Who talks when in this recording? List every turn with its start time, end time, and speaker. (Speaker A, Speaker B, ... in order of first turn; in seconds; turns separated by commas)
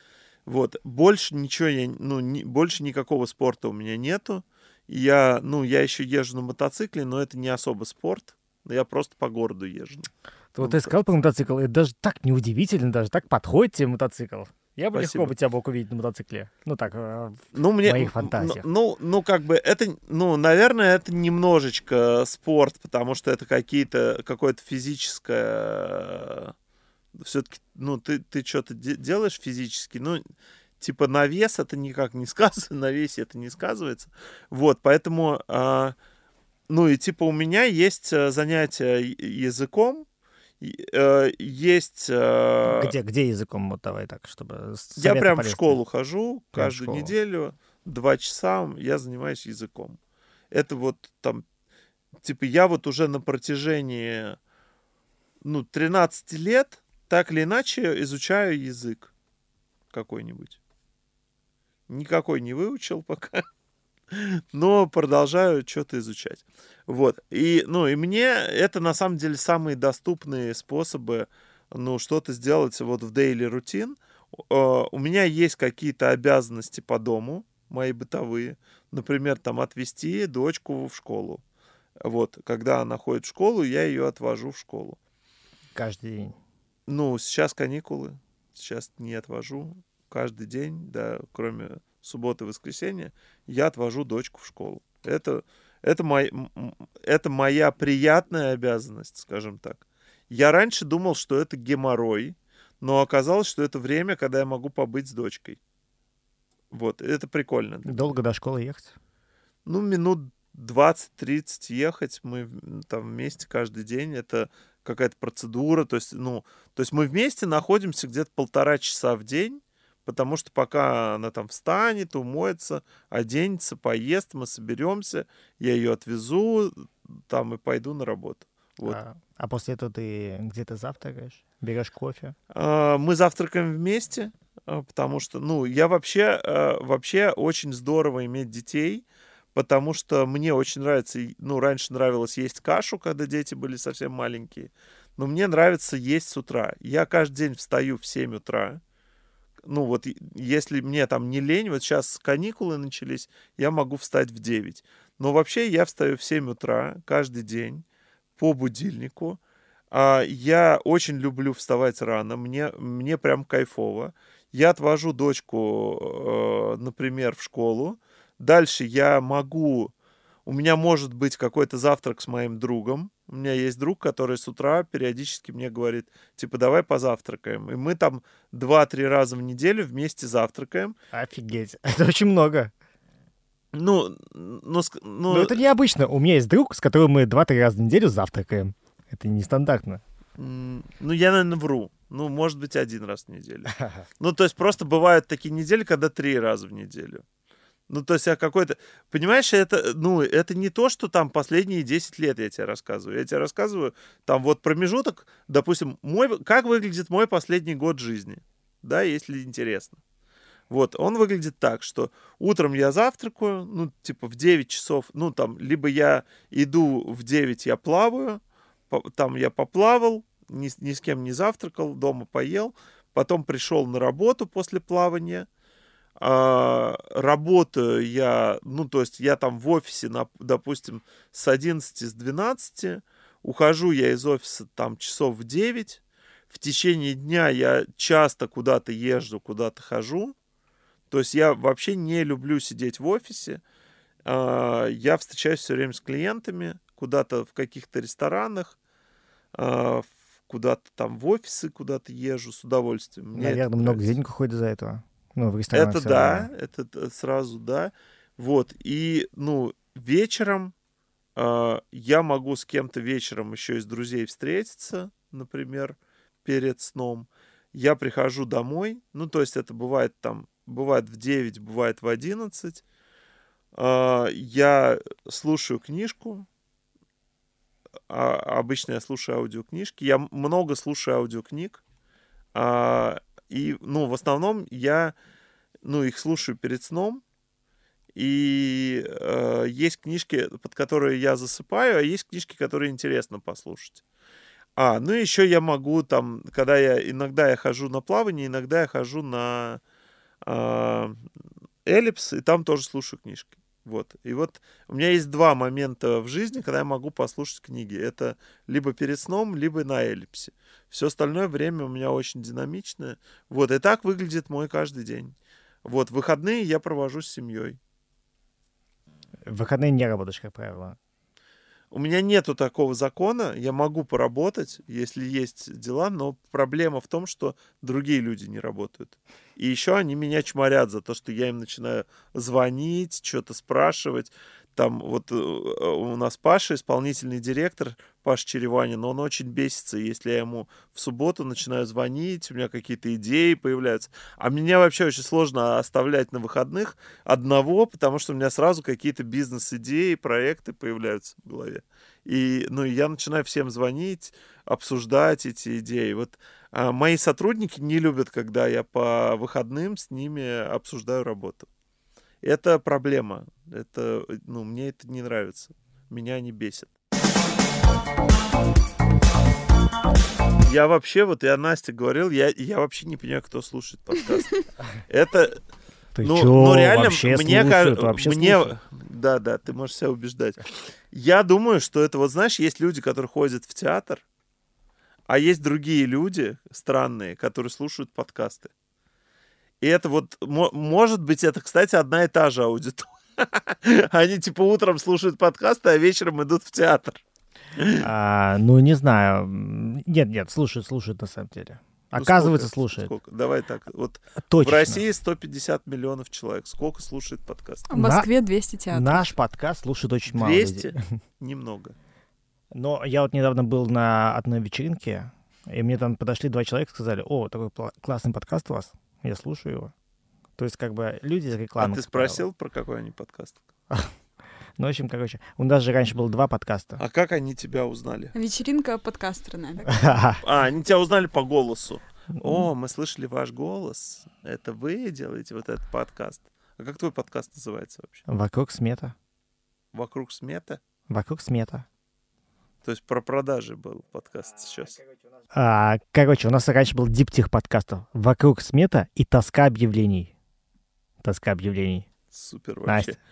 Speaker A: 0.5-10.9, Speaker B: 10.5-18.6, Speaker A: 14.9-15.3, Speaker A: 17.5-26.5, Speaker A: 27.2-30.2, Speaker A: 30.8-36.0, Speaker A: 36.7-40.0, Speaker A: 40.6-42.9, Speaker B: 42.6-45.8, Speaker A: 45.0-50.0, Speaker B: 46.5-47.1, Speaker A: 50.5-51.4, Speaker A: 52.2-54.4, Speaker A: 55.4-59.1, Speaker A: 59.9-60.6, Speaker A: 61.9-63.5, Speaker A: 64.1-81.4, Speaker A: 82.0-85.0, Speaker B: 85.7-86.3, Speaker A: 86.9-105.6, Speaker A: 106.7-108.1, Speaker B: 107.8-108.9, Speaker A: 109.7-129.0, Speaker B: 128.8-132.3, Speaker A: 132.5-148.8, Speaker A: 149.6-157.8, Speaker A: 158.4-159.4, Speaker A: 159.9-169.9, Speaker A: 170.4-180.9, Speaker B: 181.1-182.7, Speaker A: 183.7-185.6, Speaker B: 185.3-190.0, Speaker A: 190.4-197.2, Speaker A: 197.9-210.0, Speaker A: 210.7-225.5, Speaker A: 226.2-240.3, Speaker A: 241.1-243.6, Speaker A: 244.2-248.8, Speaker A: 249.5-254.1, Speaker B: 253.3-256.5, Speaker A: 255.7-260.7, Speaker A: 261.4-272.8, Speaker A: 273.7-276.5, Speaker A: 278.1-281.8, Speaker A: 282.5-285.1, Speaker A: 285.8-287.2, Speaker A: 288.1-294.0, Speaker A: 294.8-299.8, Speaker A: 300.4-301.2, Speaker A: 301.8-317.8, Speaker B: 319.5-321.0, Speaker A: 321.9-361.7, Speaker A: 362.4-366.9, Speaker A: 370.6-374.5, Speaker A: 375.1-375.6, Speaker B: 376.1-378.7, Speaker A: 376.2-384.2, Speaker A: 385.3-388.7, Speaker A: 389.8-397.2, Speaker A: 397.8-398.1, Speaker B: 398.0-403.1, Speaker A: 402.2-407.9, Speaker B: 404.5-405.0, Speaker C: 407.9-409.2, Speaker B: 407.9-408.3, Speaker B: 408.9-411.2, Speaker A: 410.3-411.9, Speaker B: 412.7-419.9, Speaker B: 420.6-422.4, Speaker A: 421.8-423.6, Speaker B: 424.8-427.0, Speaker A: 427.0-428.3, Speaker C: 428.3-430.2, Speaker B: 429.9-430.4, Speaker A: 430.4-438.2, Speaker B: 432.4-432.6, Speaker B: 438.3-439.1, Speaker A: 439.9-440.8, Speaker B: 441.1-441.8, Speaker A: 442.8-445.0, Speaker B: 445.5-450.3, Speaker B: 451.2-452.1, Speaker A: 452.3-453.2, Speaker B: 452.9-453.1